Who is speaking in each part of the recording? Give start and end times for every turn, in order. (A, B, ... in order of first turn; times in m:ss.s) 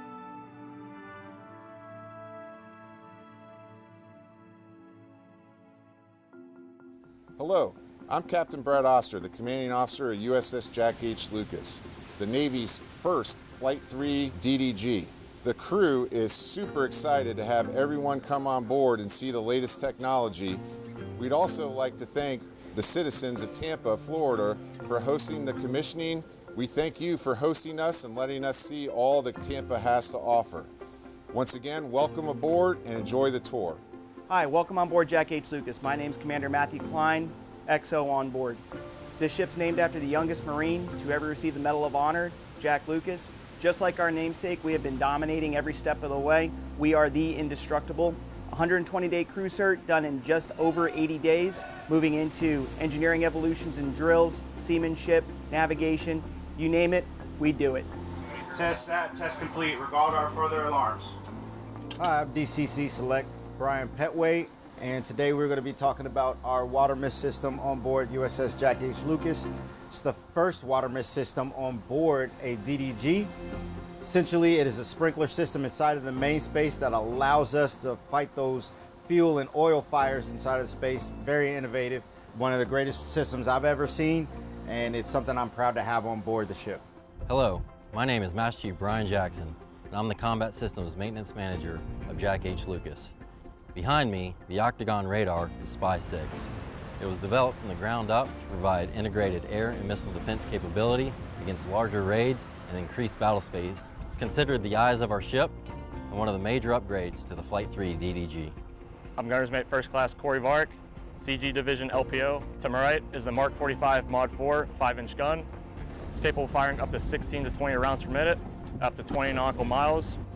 0:07.4-0:20.6 A
0:21.2-0:30.7 A
0:31.3-0:33.8 A
0:34.3-0:38.6 B
0:39.2-0:57.9 B
0:58.5-1:01.1 C
1:02.0-1:13.3 D
1:14.0-1:26.8 D
1:27.2-1:33.1 E
1:33.7-1:36.5 E
1:37.0-1:45.5 E
1:46.1-1:48.5 E
1:49.2-1:55.5 F
1:56.1-2:00.2 F